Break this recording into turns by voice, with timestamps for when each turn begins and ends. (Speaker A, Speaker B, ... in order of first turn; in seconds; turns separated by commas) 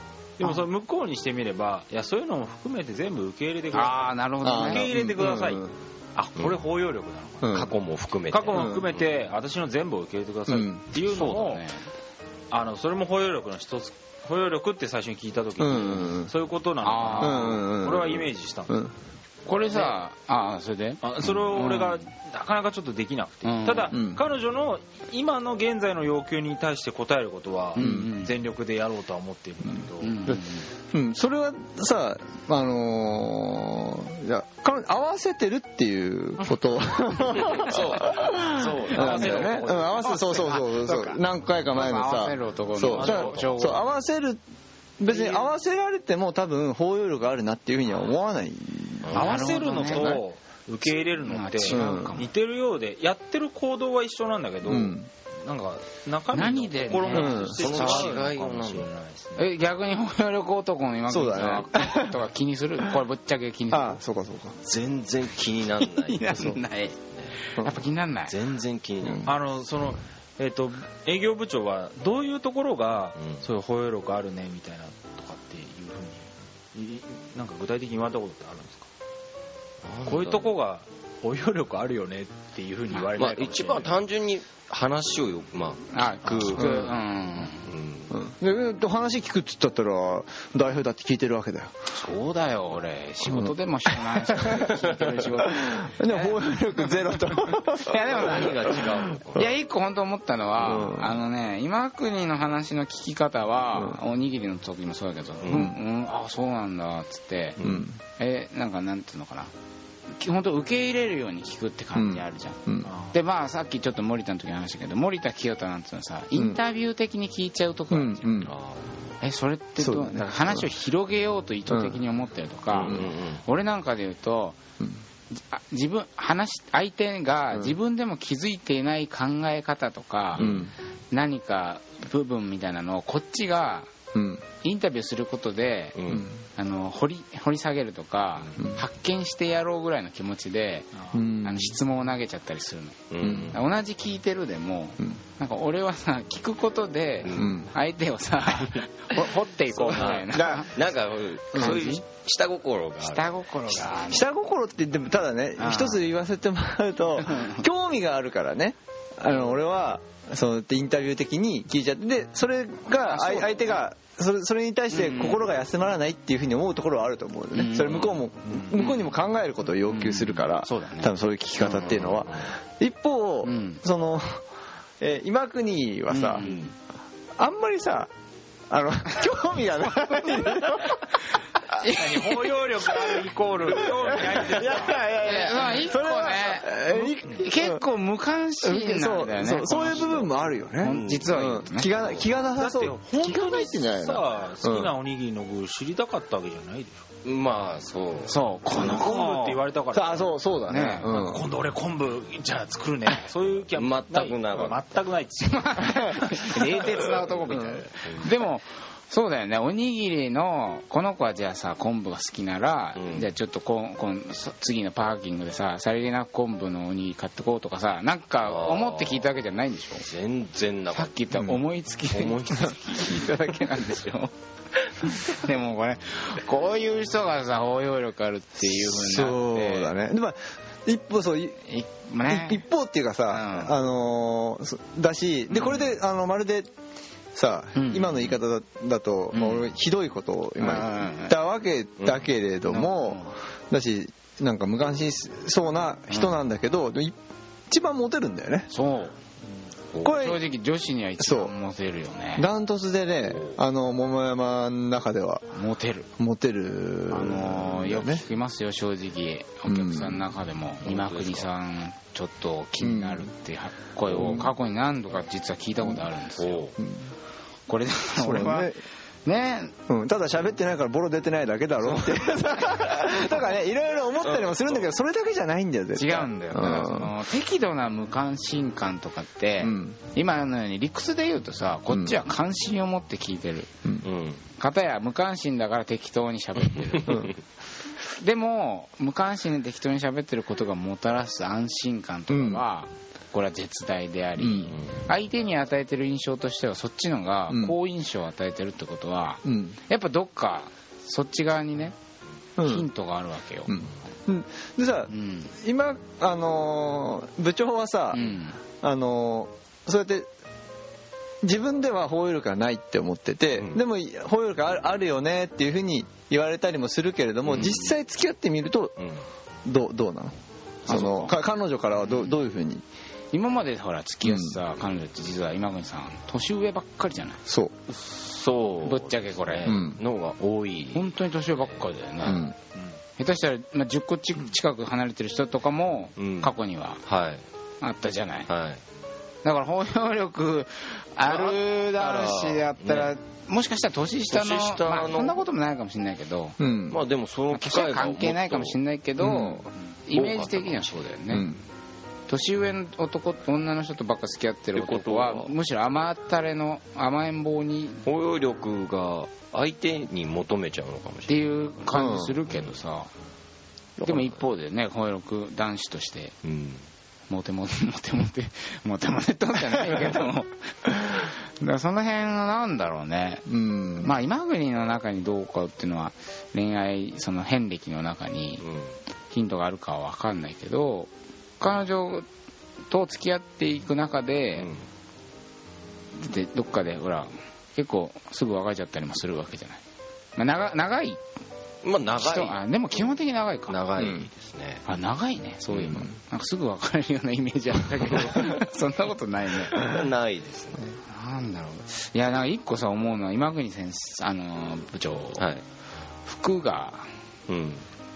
Speaker A: 0.4-7.7, Speaker B: 3.7-4.9, Speaker C: 4.4-5.7, Speaker C: 7.4-7.7, Speaker D: 7.5-9.0, Speaker A: 8.3-11.7, Speaker C: 8.5-8.9, Speaker C: 10.5-10.8, Speaker B: 11.0-11.8, Speaker A: 12.5-18.8, Speaker C: 15.6-16.3, Speaker B: 16.8-17.6, Speaker C: 17.2-18.9, Speaker B: 19.5-22.0, Speaker A: 21.0-30.2, Speaker B: 23.4-23.9, Speaker C: 23.9-24.2, Speaker B: 27.8-28.3, Speaker C: 27.8-28.1, Speaker B: 30.0-30.7, Speaker C: 30.3-44.4, Speaker D: 37.3-39.8, Speaker A: 38.6-40.4, Speaker B: 40.0-41.2, Speaker B: 41.7-43.9, Speaker A: 42.9-43.7, Speaker C: 45.0-50.2, Speaker A: 45.1-45.5, Speaker D: 49.0-49.3, Speaker A: 49.1-59.5, Speaker B: 49.1-50.2, Speaker B: 51.2-52.3, Speaker C: 51.7-52.2, Speaker C: 54.7-55.1, Speaker B: 56.3-58.3, Speaker D: 57.1-58.9, Speaker C: 57.1-57.6, Speaker B: 59.4-64.0, Speaker C: 61.1-62.1, Speaker C: 63.7-64.6, Speaker D: 64.6-67.4, Speaker B: 65.8-68.4, Speaker D: 68.3-69.3, Speaker A: 69.2-78.9, Speaker D: 73.2-73.4, Speaker D: 79.8-80.5, Speaker A: 80.1-84.0, Speaker D: 83.1-86.7, Speaker B: 85.9-87.7, Speaker C: 86.6-86.9, Speaker D: 87.6-88.2, Speaker C: 88.1-91.7, Speaker B: 91.9-109.5, Speaker C: 93.3-99.4, Speaker D: 94.7-95.1, Speaker D: 98.0-99.5, Speaker C: 100.6-101.2, Speaker C: 103.8-104.0, Speaker D: 105.4-105.7, Speaker C: 105.5-105.8, Speaker D: 107.6-107.9, Speaker C: 107.6-108.0, Speaker B: 110.1-112.6, Speaker C: 111.9-112.9, Speaker A: 112.8-113.2, Speaker B: 113.1-118.5, Speaker C: 117.9-118.5, Speaker D: 118.4-119.2, Speaker B: 119.2-124.6, Speaker C: 119.8-120.7, Speaker C: 121.7-122.0, Speaker D: 122.7-123.5, Speaker B: 125.3-133.9, Speaker D: 130.3-130.7, Speaker C: 130.4-130.7, Speaker C: 134.1-134.4, Speaker B: 134.6-136.0, Speaker D: 135.9-136.3, Speaker C: 136.1-136.4, Speaker B: 136.6-150.7, Speaker A: 141.0-141.2, Speaker C: 141.1-141.8, Speaker D: 143.1-143.6, Speaker C: 143.2-143.6, Speaker D: 147.2-147.5, Speaker C: 147.3-147.7, Speaker D: 149.8-153.9, Speaker C: 150.0-150.7, Speaker C: 151.5-151.9, Speaker B: 151.5-152.0, Speaker B: 153.0-154.3, Speaker C: 154.1-174.4, Speaker B: 155.6-156.1, Speaker B: 157.2-157.6, Speaker B: 163.0-163.8, Speaker B: 164.9-165.5, Speaker B: 167.5-168.2, Speaker D: 167.8-168.2, Speaker A: 168.5-168.8, Speaker B: 168.8-169.1, Speaker B: 169.9-171.1, Speaker D: 171.6-172.5, Speaker B: 173.4-173.8, Speaker C: 175.0-176.5, Speaker B: 176.1-176.7, Speaker D: 176.4-176.7, Speaker C: 177.4-178.1, Speaker C: 178.7-181.1, Speaker B: 181.7-182.1, Speaker A: 181.8-185.0, Speaker C: 182.8-187.8, Speaker B: 185.2-192.2, Speaker C: 188.6-194.9, Speaker D: 190.8-191.3, Speaker D: 192.0-192.3, Speaker A: 192.6-197.1, Speaker D: 197.2-198.3, Speaker B: 198.3-199.6, Speaker A: 198.8-206.1, Speaker C: 199.9-201.5, Speaker B: 200.7-201.1, Speaker D: 203.8-204.8, Speaker B: 205.5-220.1, Speaker C: 205.9-206.3, Speaker C: 207.5-207.8, Speaker D: 208.0-208.3, Speaker D: 213.0-213.3, Speaker D: 218.4-219.3, Speaker D: 220.0-221.2, Speaker B: 220.9-224.3, Speaker D: 222.1-223.3, Speaker B: 225.0-229.9, Speaker C: 228.7-231.6, Speaker B: 231.7-232.7, Speaker C: 232.3-236.7, Speaker B: 233.3-233.8, Speaker C: 237.3-247.2, Speaker B: 237.8-238.3, Speaker B: 239.3-239.7, Speaker B: 240.6-241.4, Speaker B: 242.7-243.3, Speaker B: 246.1-246.3, Speaker C: 247.7-248.7, Speaker B: 248.7-249.2, Speaker C: 250.0-250.4, Speaker B: 250.0-252.5, Speaker C: 251.2-251.5, Speaker C: 252.4-255.5, Speaker D: 253.3-253.6, Speaker B: 255.5-256.1, Speaker C: 256.2-258.2, Speaker B: 257.1-266.7, Speaker C: 259.7-260.2, Speaker D: 260.8-261.5, Speaker C: 262.8-263.3, Speaker C: 264.1-264.5, Speaker D: 266.4-266.8, Speaker C: 266.8-267.1, Speaker B: 267.7-268.7, Speaker C: 268.2-268.8, Speaker B: 269.2-269.7, Speaker C: 269.9-277.1, Speaker D: 271.9-273.3, Speaker D: 274.2-274.9, Speaker B: 276.0-283.7, Speaker C: 279.6-280.0, Speaker C: 281.9-282.2, Speaker D: 284.0-284.4, Speaker B: 284.6-287.3, Speaker D: 286.7-287.3, Speaker B: 288.2-301.9, Speaker C: 292.3-292.6, Speaker C: 294.4-294.8, Speaker D: 294.7-295.0, Speaker C: 297.5-297.8, Speaker C: 299.4-299.8, Speaker C: 302.6-302.9, Speaker B: 302.6-303.8, Speaker C: 303.7-308.3, Speaker B: 305.1-305.5, Speaker B: 308.1-308.6, Speaker C: 308.8-310.3, Speaker C: 311.4-319.0, Speaker D: 317.5-317.8, Speaker D: 319.0-319.2, Speaker C: 319.6-320.3, Speaker B: 320.9-321.4, Speaker C: 320.9-322.8, Speaker B: 322.0-322.4, Speaker B: 323.3-327.4, Speaker C: 324.2-324.6, Speaker C: 327.5-327.7, Speaker D: 327.9-331.8, Speaker B: 328.8-329.8, Speaker C: 329.6-330.0, Speaker B: 330.9-332.5, Speaker C: 332.2-332.6, Speaker B: 333.2-337.0, Speaker D: 336.2-336.5, Speaker D: 337.1-337.4, Speaker B: 337.8-338.5, Speaker D: 338.5-338.8, Speaker B: 339.4-346.6, Speaker D: 341.3-343.1, Speaker D: 344.3-345.4, Speaker C: 346.6-347.0, Speaker D: 346.9-348.8, Speaker B: 347.5-351.5, Speaker C: 349.2-349.6, Speaker D: 350.1-351.1, Speaker C: 351.3-351.6, Speaker B: 352.3-358.0, Speaker D: 354.8-355.6, Speaker D: 358.1-361.4, Speaker B: 361.3-363.1, Speaker C: 361.9-362.4, Speaker D: 362.5-362.8, Speaker D: 364.0-364.5, Speaker B: 364.1-366.3, Speaker D: 366.4-366.9, Speaker B: 367.3-373.5, Speaker C: 373.5-374.1, Speaker B: 374.0-378.6, Speaker D: 378.6-378.9, Speaker B: 379.3-382.3, Speaker B: 382.9-384.7, Speaker D: 384.6-384.8, Speaker B: 386.1-389.8, Speaker B: 390.4-391.2, Speaker D: 391.8-392.6, Speaker B: 392.2-394.1, Speaker D: 393.7-394.9, Speaker C: 394.0-394.3, Speaker B: 394.9-399.9, Speaker D: 395.7-396.1, Speaker D: 399.7-400.9, Speaker B: 401.0-405.4, Speaker D: 405.4-405.6, Speaker B: 406.3-407.1, Speaker D: 407.5-407.9